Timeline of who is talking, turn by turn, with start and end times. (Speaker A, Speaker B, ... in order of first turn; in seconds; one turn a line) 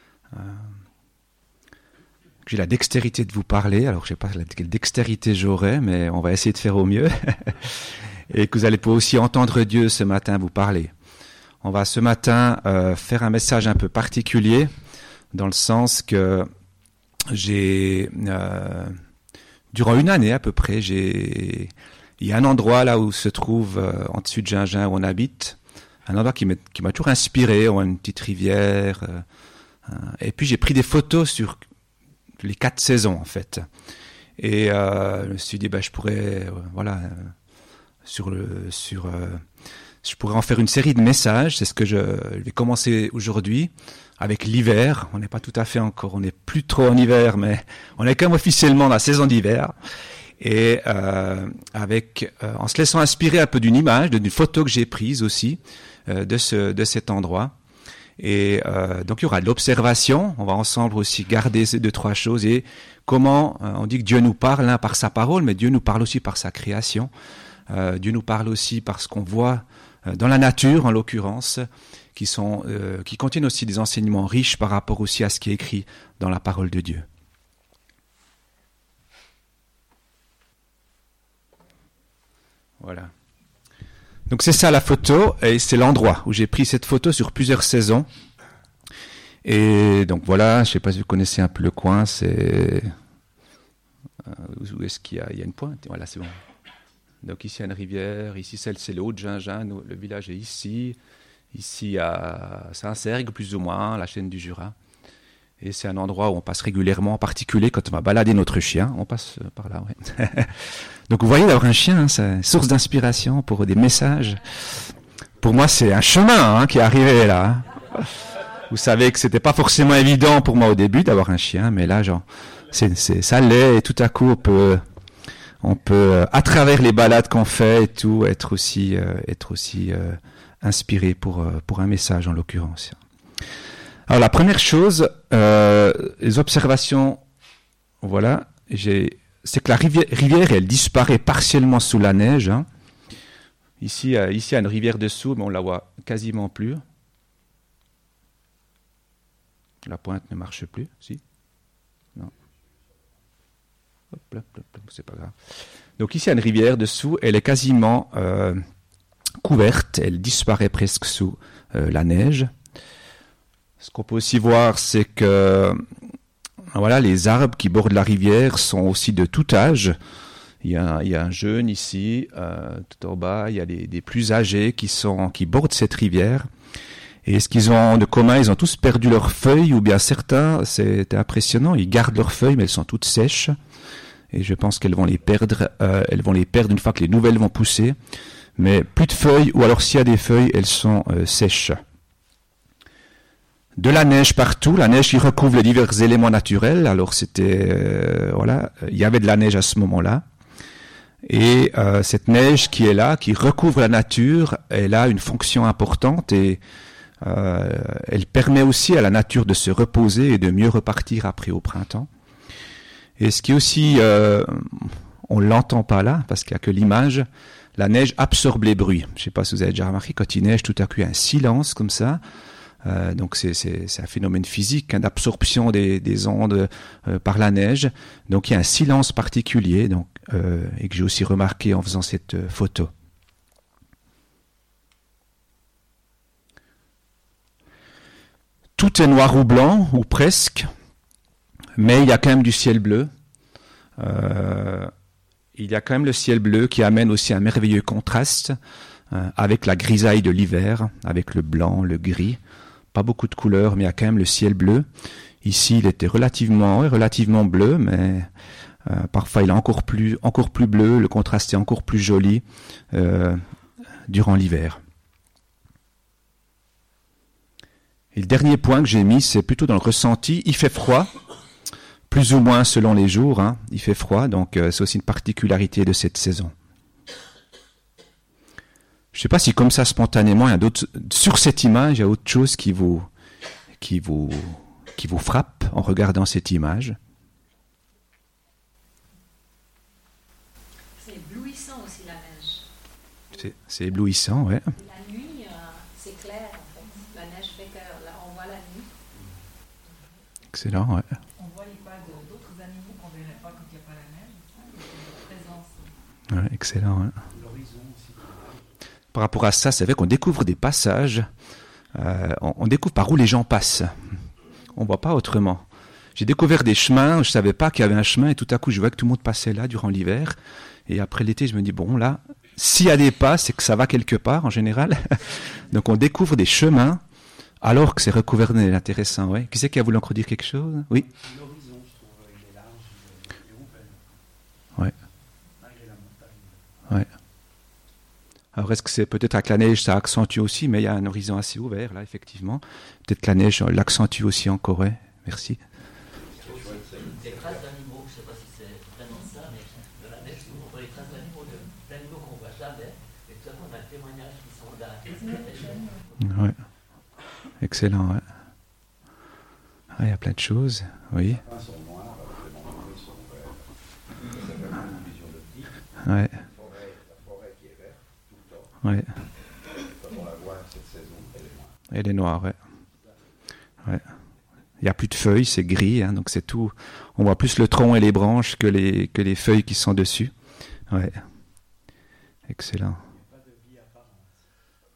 Speaker A: 0.3-0.7
Speaker A: 2.5-7.8
Speaker A: 8.3-10.9
Speaker A: 11.6-14.7
Speaker A: 15.3-16.5
Speaker A: 17.3-19.0
Speaker A: 19.7-29.2
Speaker A: 29.9-31.6
Speaker A: 32.4-33.7
Speaker A: 34.4-37.3
Speaker A: 38.0-39.4
Speaker A: 40.0-49.7
Speaker A: 50.4-57.5
Speaker A: 58.2-67.1
Speaker A: 67.7-77.1
Speaker A: 82.8-83.1
Speaker A: 84.3-88.1
Speaker A: 89.4-92.9
Speaker A: 94.3-96.3
Speaker A: 97.2-101.0
Speaker A: 101.5-104.8
Speaker A: 105.6-110.5
Speaker A: 111.1-114.4
Speaker A: 115.4-118.0
Speaker A: 118.6-124.8
Speaker A: 125.6-133.0
Speaker A: 134.1-137.2
Speaker A: 138.0-142.7
Speaker A: 143.8-146.8
Speaker A: 149.9-151.2
Speaker B: 152.2-153.1
Speaker A: 154.2-155.3
Speaker A: 156.0-158.6
Speaker A: 159.4-162.5
Speaker A: 163.8-165.8
Speaker A: 166.7-169.9
Speaker A: 170.6-176.5
Speaker A: 177.2-183.6
Speaker A: 184.3-188.0
Speaker A: 188.6-191.8
Speaker A: 193.8-200.2
Speaker A: 201.2-206.6
Speaker A: 207.2-212.1
Speaker A: 213.2-222.2
Speaker A: 222.8-232.9
Speaker A: 238.8-240.7
Speaker A: 241.8-243.1
Speaker A: 244.0-244.9
Speaker A: 245.6-248.6
Speaker A: 249.1-252.4
Speaker A: 252.9-254.9
Speaker A: 255.4-258.3
Speaker A: 258.9-263.4
Speaker A: 264.1-264.8
Speaker A: 268.1-271.1
Speaker A: 272.1-276.5
Speaker A: 279.1-283.1
Speaker A: 283.8-287.0
Speaker C: 291.0-292.6
Speaker A: 293.3-294.7
Speaker C: 294.7-298.9
Speaker A: 300.5-301.1
Speaker D: 301.4-305.9
Speaker A: 306.3-307.1
Speaker B: 307.3-308.7
Speaker A: 309.1-311.3
Speaker A: 311.9-313.9
Speaker A: 314.8-315.6
Speaker A: 316.2-320.4
Speaker A: 320.9-327.0
Speaker A: 327.6-331.1
Speaker B: 331.0-334.3
Speaker B: 335.6-336.7
Speaker A: 338.6-345.6
Speaker B: 346.3-347.6
Speaker E: 346.4-356.2
Speaker A: 356.2-356.6
Speaker A: 357.6-358.3
Speaker A: 359.9-361.4
Speaker B: 361.3-368.8
Speaker A: 366.1-366.3
Speaker B: 369.8-371.8
Speaker A: 371.9-372.6
Speaker A: 374.8-380.3
Speaker A: 380.9-381.2
Speaker A: 382.5-383.0
Speaker B: 383.0-384.5